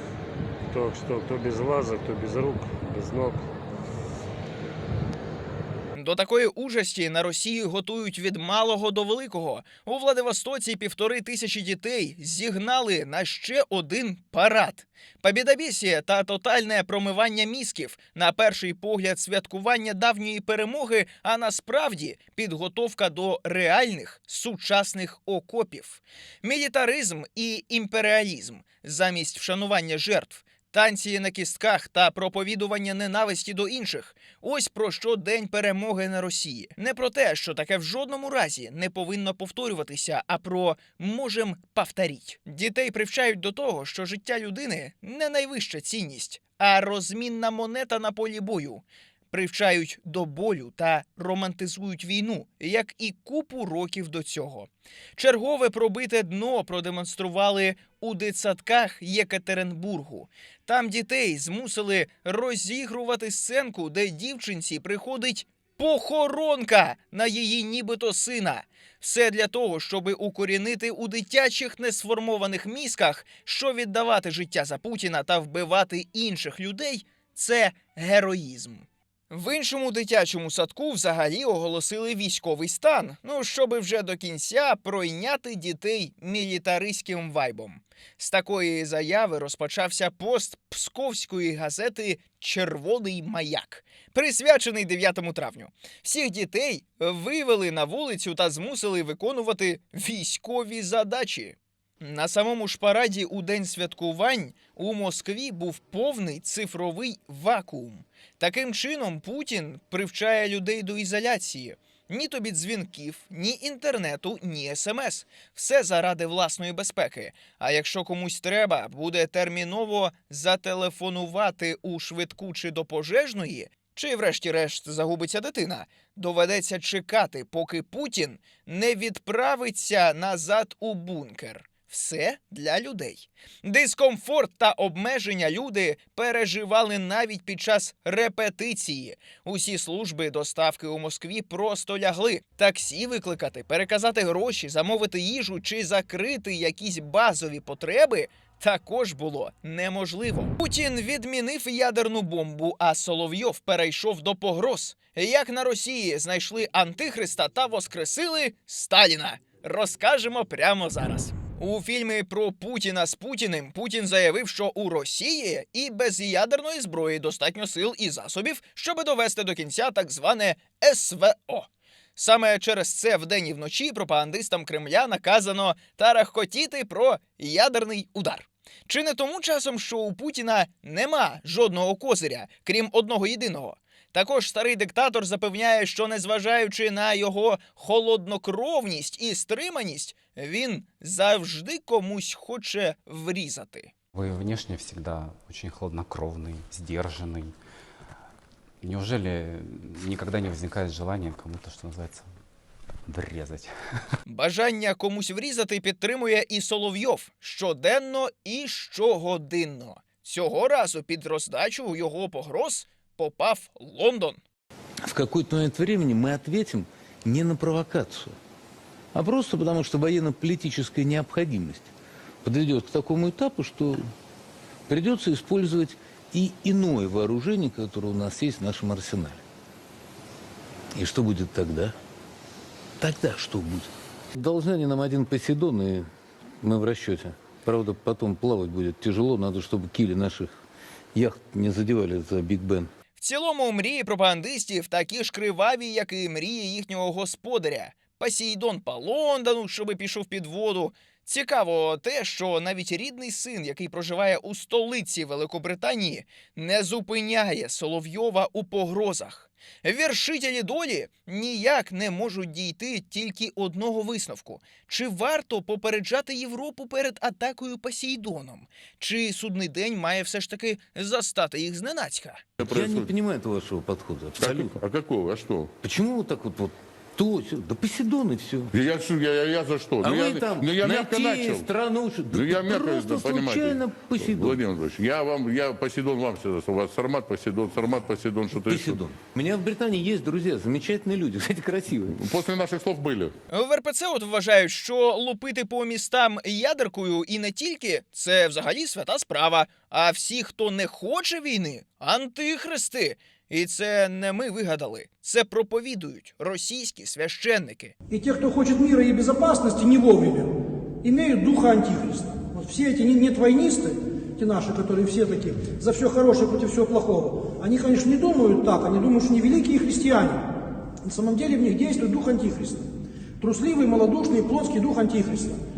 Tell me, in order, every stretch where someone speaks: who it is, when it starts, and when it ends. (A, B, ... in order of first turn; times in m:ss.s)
0:00.7-0:03.5 A
0:06.0-3:13.9 B
3:14.1-3:17.5 C
3:18.8-3:22.3 C
3:23.1-3:23.7 C
3:24.3-3:34.4 B
3:35.0-3:38.4 D
3:39.1-3:41.9 D
3:42.4-3:44.0 D
3:44.9-3:49.4 D
3:51.0-3:52.0 D
3:53.0-3:56.1 D
3:56.6-4:00.5 D
4:01.1-4:02.9 D
4:03.2-4:32.4 B
4:32.6-4:33.1 E
4:32.6-4:34.8 D
4:34.4-4:35.7 E
4:35.8-4:38.7 D
4:38.7-4:41.7 E
4:40.0-4:44.6 D
4:42.3-4:49.0 E
4:48.5-4:52.3 D
4:52.2-4:53.3 E
4:53.5-5:08.0 B
5:08.1-5:20.4 F
5:21.0-5:22.8 F
5:23.4-5:25.6 F